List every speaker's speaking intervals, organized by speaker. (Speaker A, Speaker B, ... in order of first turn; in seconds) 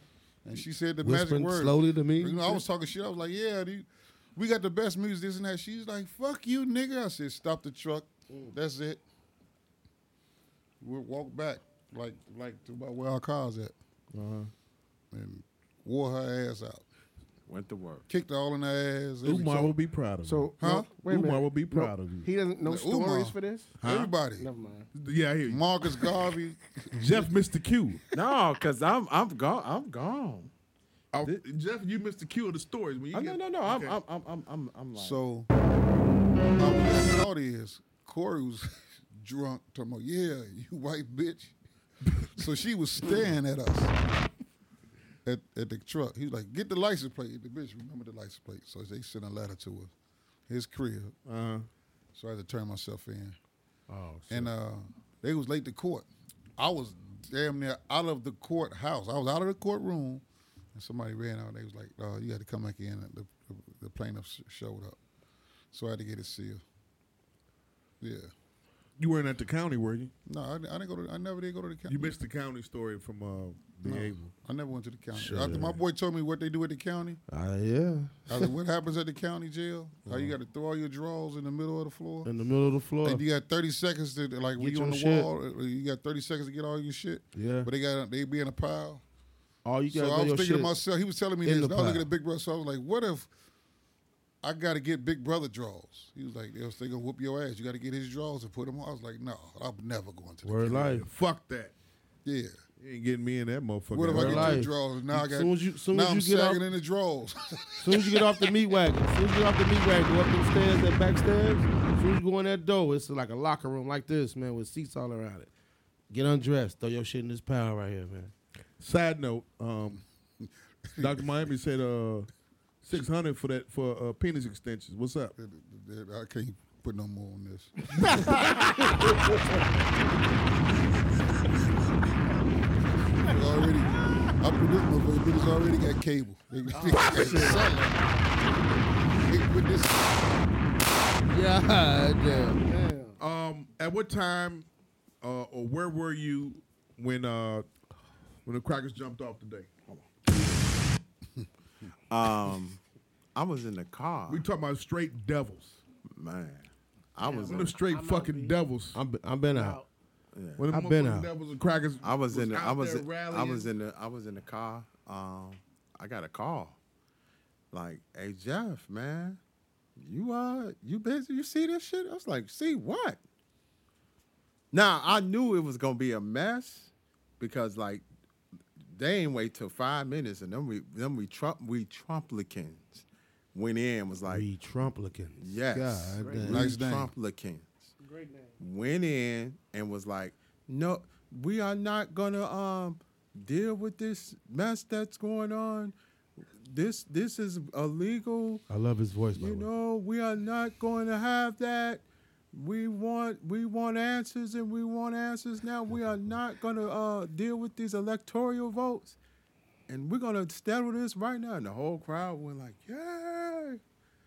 Speaker A: 0.5-9.0, 10.8-13.7, 15.1-16.8, 18.1-19.8, 20.6-21.0, 22.6-24.5, 25.5-27.3, 35.0-35.5, 36.6-41.5, 42.4-44.0, 45.2-49.9, 50.5-51.1, 52.1-53.4, 54.3-56.1, 56.6-65.0, 65.7-66.6, 68.0-68.3, 70.3-72.1, 73.8-77.2, 78.3-82.3, 83.0-89.0, 89.9-93.3, 94.4-100.9, 102.2-102.6, 103.9-108.4, 120.9-121.3, 125.3-129.6, 133.2-138.1, 139.3-140.4, 186.5-187.1
Speaker B: 1.0-2.6, 75.1-75.8, 77.3-78.5, 82.2-83.2, 84.6-85.3, 87.3-87.7, 89.7-90.8, 91.4-92.1, 100.4-101.1, 104.1-106.6, 107.8-115.5, 116.1-118.3, 141.3-142.6, 158.9-159.8, 160.7-161.3, 184.3-186.7, 198.7-199.7
Speaker C: 14.1-14.5, 19.2-22.3, 23.8-24.1, 24.9-26.1, 26.9-28.0, 31.1-34.0, 42.1-42.4, 51.3-51.7, 53.9-54.5, 69.0-70.1, 71.9-74.3, 100.8-101.7, 102.8-104.7, 118.8-120.0, 121.0-122.3, 122.8-125.3, 143.2-144.7, 145.2-147.7, 148.4-149.7, 154.3-155.8, 157.5-159.0, 160.6-163.7
Speaker D: 17.5-18.1, 28.1-30.5, 33.1-35.2, 152.1-152.8, 153.3-154.4, 156.1-157.7, 160.3-160.7, 162.0-166.8, 167.7-169.4, 170.0-173.2, 174.7-178.0, 178.8-184.5, 185.4-187.9, 188.6-196.0, 196.6-198.7, 199.4-209.2, 209.9-213.8
Speaker E: 20.2-23.8, 24.4-24.9, 128.3-128.6, 136.7-138.5, 142.3-143.2, 157.2-158.6, 159.5-159.9, 186.2-186.5, 188.0-188.6